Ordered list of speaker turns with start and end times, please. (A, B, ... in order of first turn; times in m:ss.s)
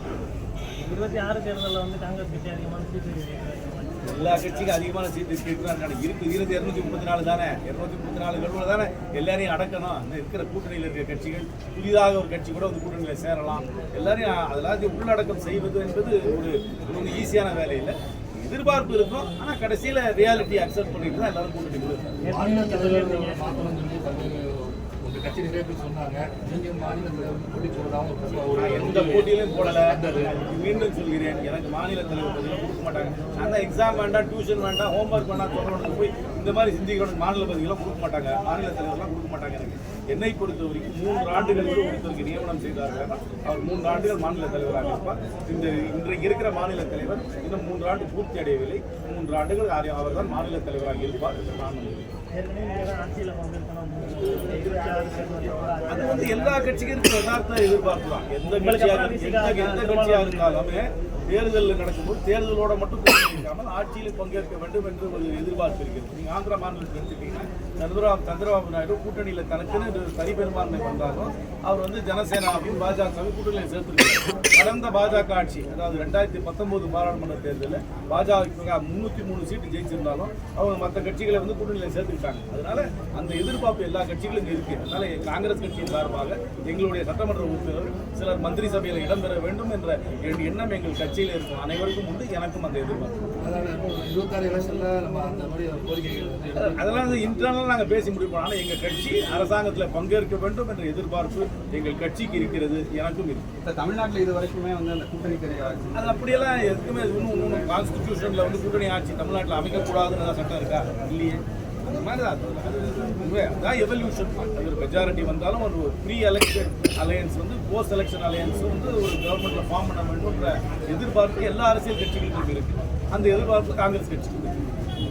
0:00.8-0:04.5 A
0:04.1-0:22.2 B
0:22.2-0:23.7 A
0:22.3-0:30.3 C
0:28.6-0:52.1 B
0:52.3-0:57.0 A
0:55.4-1:33.2 B
0:58.4-1:00.7 A
1:33.4-1:37.3 C
1:36.6-1:43.4 B
1:43.6-1:46.2 D
1:45.9-2:04.6 B